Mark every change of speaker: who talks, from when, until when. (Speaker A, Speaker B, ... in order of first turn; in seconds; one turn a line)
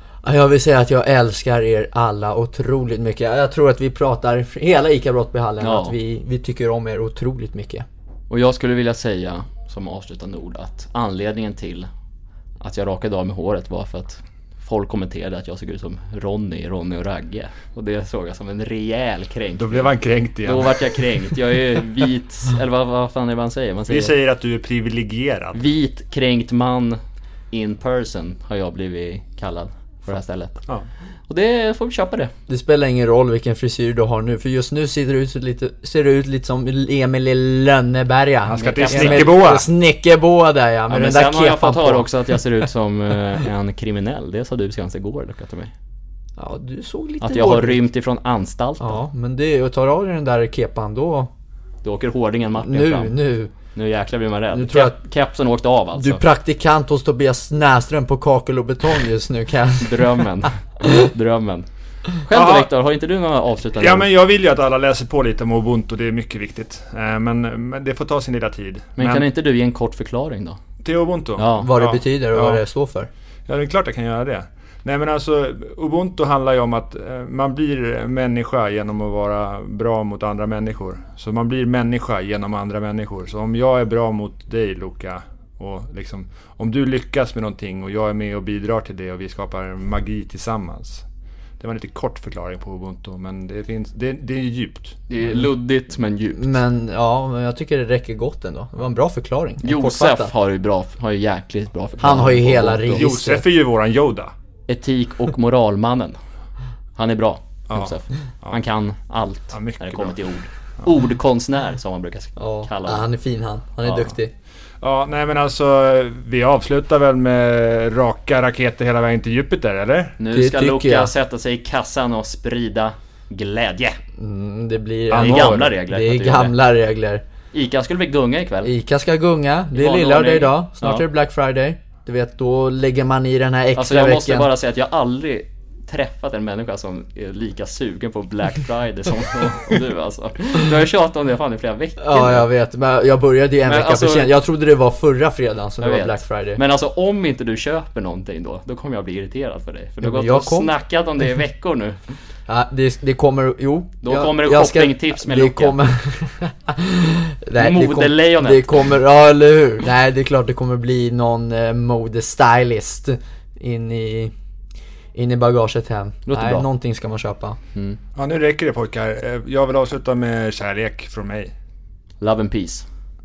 Speaker A: 0.2-7.9
Speaker B: 5.6-6.0
Speaker B: 8.3-11.9
Speaker B: 12.6-24.1
Speaker C: 19.6-21.1
Speaker C: 23.9-25.6
Speaker B: 25.5-27.0
Speaker B: 27.5-30.6
Speaker B: 31.3-32.3
Speaker A: 32.5-42.4
Speaker C: 38.5-39.7
Speaker B: 38.5-39.6
Speaker B: 40.9-45.7
Speaker A: 46.4-47.8
Speaker B: 47.2-49.0
Speaker A: 48.8-51.3
Speaker B: 51.8-53.2
Speaker A: 52.6-53.5
Speaker B: 53.7-56.2
Speaker A: 54.5-55.0
Speaker A: 56.0-60.3
Speaker B: 59.8-61.7
Speaker B: 62.2-64.1
Speaker C: 62.3-62.7
Speaker C: 63.8-69.3
Speaker B: 69.0-70.6
Speaker C: 70.8-72.6
Speaker B: 71.4-71.7
Speaker A: 71.5-73.1
Speaker C: 73.5-91.0
Speaker C: 91.6-95.0
Speaker B: 95.1-96.6
Speaker A: 96.3-100.3
Speaker B: 99.6-103.1
Speaker A: 102.0-103.5
Speaker C: 102.9-104.3
Speaker B: 104.7-106.2
Speaker B: 107.0-113.1
Speaker C: 107.7-108.6
Speaker C: 109.5-110.2
Speaker A: 112.4-114.3
Speaker B: 113.8-114.2
Speaker C: 114.8-120.2
Speaker B: 120.2-124.0
Speaker A: 120.3-121.1
Speaker A: 124.2-127.2
Speaker C: 125.1-125.8
Speaker B: 125.2-126.6
Speaker B: 127.5-128.7
Speaker A: 128.6-134.5
Speaker B: 129.7-131.1
Speaker B: 133.8-142.5
Speaker A: 142.0-146.6
Speaker B: 143.7-144.3
Speaker B: 145.8-152.0
Speaker A: 150.0-150.7
Speaker A: 152.5-164.3
Speaker B: 154.0-155.8
Speaker B: 157.6-159.0
Speaker A: 165.2-167.6
Speaker B: 166.3-166.7
Speaker C: 168.2-171.5
Speaker B: 172.2-172.9